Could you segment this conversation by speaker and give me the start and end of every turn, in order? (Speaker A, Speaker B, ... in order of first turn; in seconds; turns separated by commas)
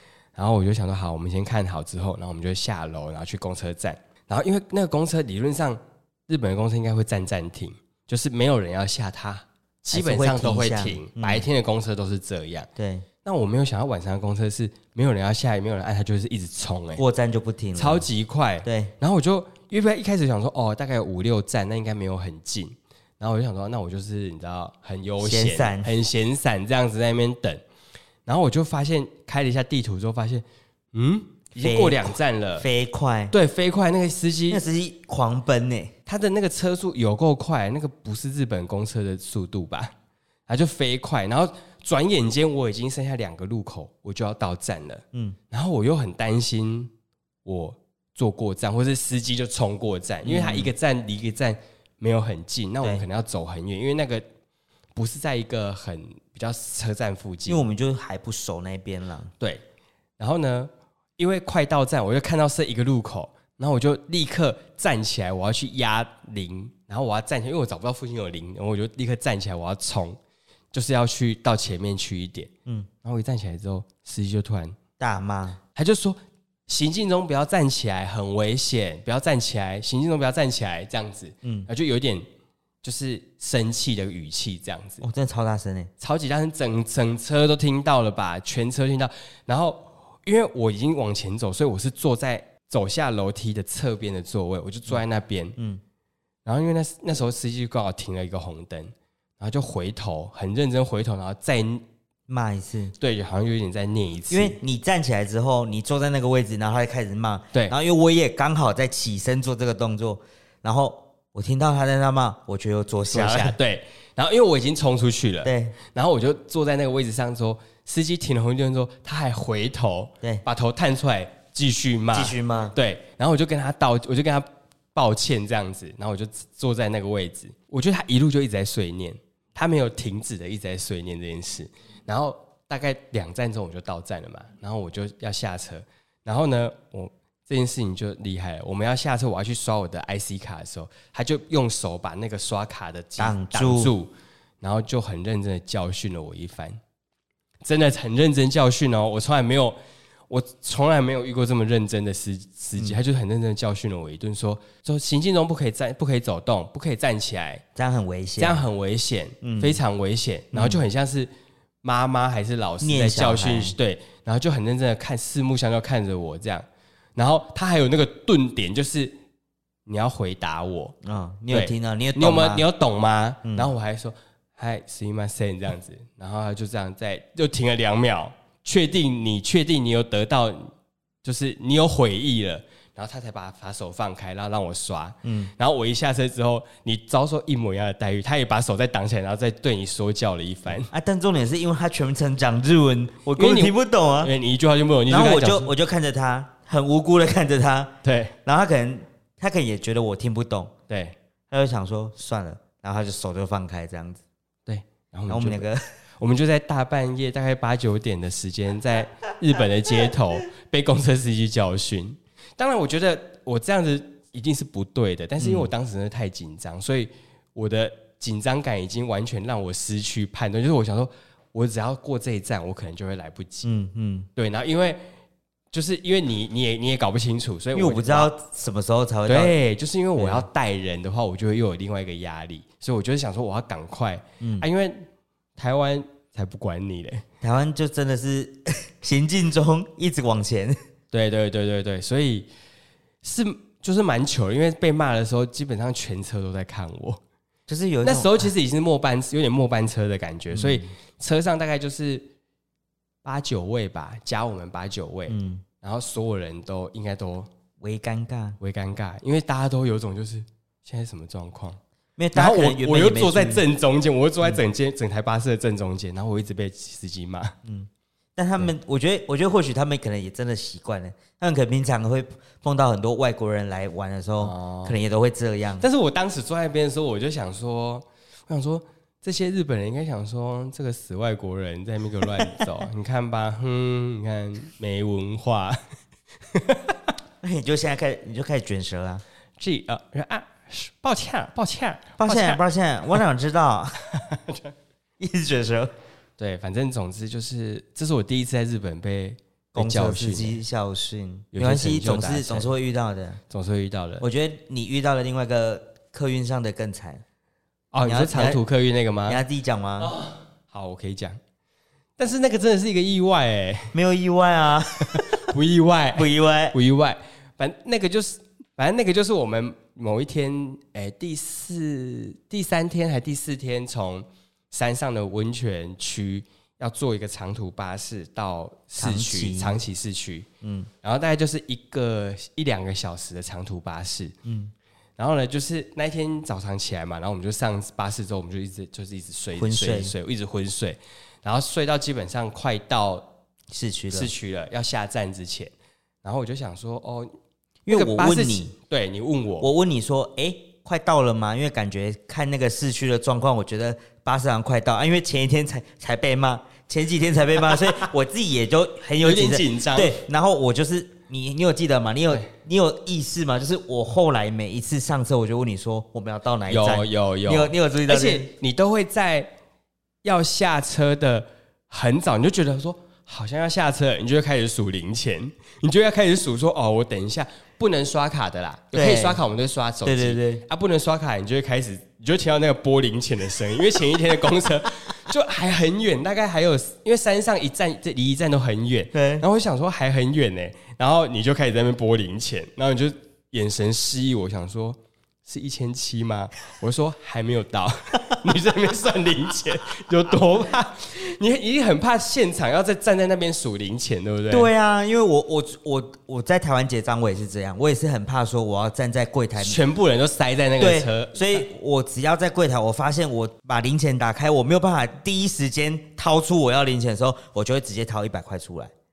Speaker A: 0.3-12.7, Speaker B: 9.9-11.5, Speaker B: 12.8-13.1, Speaker A: 13.2-17.0, Speaker B: 17.0-18.1, Speaker A: 17.8-27.6, Speaker B: 18.6-18.9, Speaker B: 25.2-25.9, Speaker A: 28.3-32.7, Speaker B: 31.6-33.3, Speaker A: 33.3-34.6, Speaker B: 34.5-35.9, Speaker A: 36.1-39.9, Speaker A: 40.5-46.9, Speaker A: 47.5-54.2, Speaker B: 50.2-50.7, Speaker A: 55.0-57.6, Speaker B: 57.5-59.3, Speaker A: 60.2-70.2, Speaker A: 70.7-72.5, Speaker A: 73.0-74.8, Speaker B: 75.0-75.6, Speaker A: 75.8-82.2, Speaker B: 81.4-81.7, Speaker A: 82.8-85.0, Speaker B: 85.0-85.9, Speaker A: 86.0-95.6, Speaker A: 96.5-101.8, Speaker B: 102.3-102.9, Speaker A: 103.0-104.6, Speaker B: 104.3-113.6, Speaker A: 113.1-146.8, Speaker B: 115.4-115.8, Speaker B: 122.1-122.8, Speaker B: 143.2-143.9, Speaker A: 147.6-149.8, Speaker A: 150.3-157.6, Speaker B: 157.8-158.6, Speaker A: 158.4-161.3, Speaker B: 159.4-159.8, Speaker B: 160.5-160.8, Speaker A: 161.8-166.7, Speaker B: 162.8-163.8, Speaker A: 167.2-169.2, Speaker A: 169.9-170.9, Speaker B: 171.0-172.6, Speaker A: 171.5-180.7, Speaker B: 173.4-173.7, Speaker A: 181.2-190.9, Speaker B: 185.2-185.5, Speaker B: 190.9-194.3, Speaker A: 193.4-195.7, Speaker B: 195.1-200.7, Speaker A: 198.0-198.3, Speaker A: 200.9-201.2, Speaker B: 201.5-204.2, Speaker A: 204.7-205.7, Speaker B: 205.3-205.8, Speaker A: 206.2-223.7, Speaker B: 215.4-215.7, Speaker B: 223.6-224.3, Speaker A: 224.4-225.0, Speaker A: 225.7-228.3, Speaker B: 227.7-229.6, Speaker A: 229.3-237.2, Speaker B: 230.2-230.5, Speaker B: 234.4-234.7, Speaker B: 237.4-240.8, Speaker A: 241.1-242.5, Speaker A: 243.2-247.2, Speaker B: 247.7-248.5, Speaker A: 248.0-252.3, Speaker B: 250.5-250.9, Speaker A: 253.2-257.5, Speaker B: 255.3-255.7, Speaker B: 257.8-258.6, Speaker A: 258.6-261.8, Speaker B: 262.2-263.6, Speaker A: 262.3-267.6, Speaker B: 267.6-275.9, Speaker A: 274.4-275.0, Speaker A: 275.8-285.8, Speaker A: 286.5-287.0, Speaker B: 287.4-289.2, Speaker A: 289.6-292.6, Speaker B: 292.2-294.0, Speaker A: 294.1-294.7, Speaker B: 295.2-295.9, Speaker A: 296.4-300.6, Speaker B: 299.7-303.4, Speaker A: 301.5-302.7, Speaker A: 303.5-304.3, Speaker B: 304.2-307.2, Speaker A: 307.9-309.4, Speaker B: 308.0-308.6, Speaker B: 309.3-310.1, Speaker A: 310.0-311.4, Speaker A: 312.2-313.9, Speaker B: 313.9-315.5, Speaker A: 315.0-330.5, Speaker B: 316.1-316.8, Speaker B: 329.0-329.8, Speaker B: 330.6-330.9, Speaker A: 331.0-334.4, Speaker B: 334.4-334.7, Speaker A: 335.2-343.3, Speaker B: 339.6-340.1, Speaker B: 343.7-344.3, Speaker A: 344.1-345.7, Speaker A: 346.2-347.3, Speaker B: 347.9-348.7, Speaker A: 347.9-349.7, Speaker B: 349.6-368.5, Speaker A: 359.2-360.2, Speaker A: 366.7-369.5, Speaker A: 370.2-404.7, Speaker B: 378.9-379.4, Speaker B: 380.0-380.6, Speaker B: 389.1-389.4, Speaker B: 404.5-409.8, Speaker A: 409.6-411.7, Speaker B: 410.8-418.9